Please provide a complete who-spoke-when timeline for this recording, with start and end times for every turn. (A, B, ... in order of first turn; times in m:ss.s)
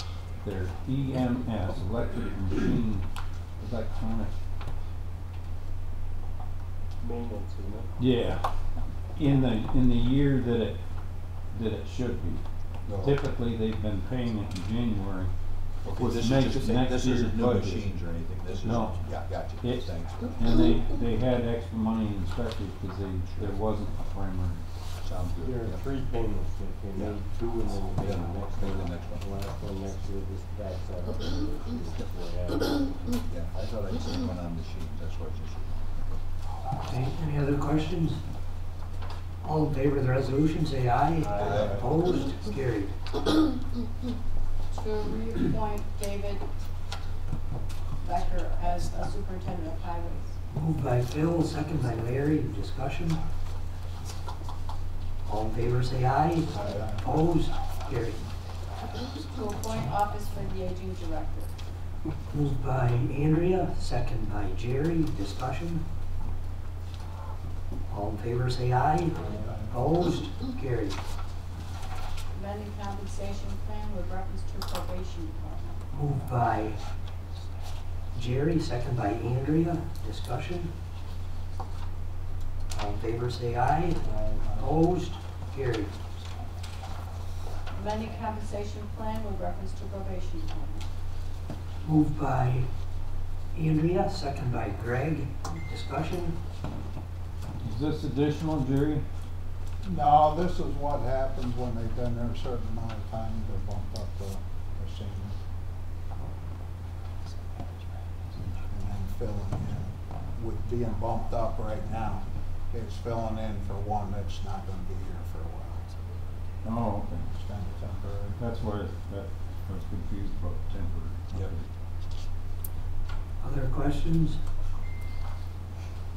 0:00.4-0:03.0 A
0:03.6-0:04.3 A
0:07.0-0:07.9 B
0:08.0-0:08.4 A
0:09.1-0:10.8 A
0:11.5-0:15.3 A
0:12.8-0:13.2 C
0:15.8-0:20.3 C
0:15.9-0:17.9 A
0:18.5-0:24.6 A
0:23.3-0:23.6 C
0:25.0-0:25.8 C
0:25.4-0:33.2 B
0:26.9-0:27.2 C
0:27.9-0:29.3 C
0:33.3-0:35.8 C
0:36.8-0:38.2 D
0:39.4-0:42.9 D
0:41.2-0:41.9 B
0:41.4-0:41.8 C
0:44.7-0:46.5 E
0:48.0-0:50.3 E
0:50.5-0:53.2 D
0:55.2-0:58.3 D
0:56.5-0:57.0 F
0:59.0-1:01.5 E
1:02.3-1:05.8 D
1:07.9-1:11.0 D
1:12.3-1:15.8 E
1:15.9-1:16.8 D
1:18.1-1:20.7 D
1:22.7-1:26.0 D
1:24.1-1:24.6 B
1:27.7-1:30.8 E
1:31.8-1:32.7 D
1:33.5-1:36.4 D
1:37.6-1:39.0 A
1:39.8-1:45.4 F
1:48.6-1:56.0 F
1:56.6-1:57.2 A
1:57.2-1:58.4 F
1:58.3-2:01.7 A
2:03.4-2:04.4 D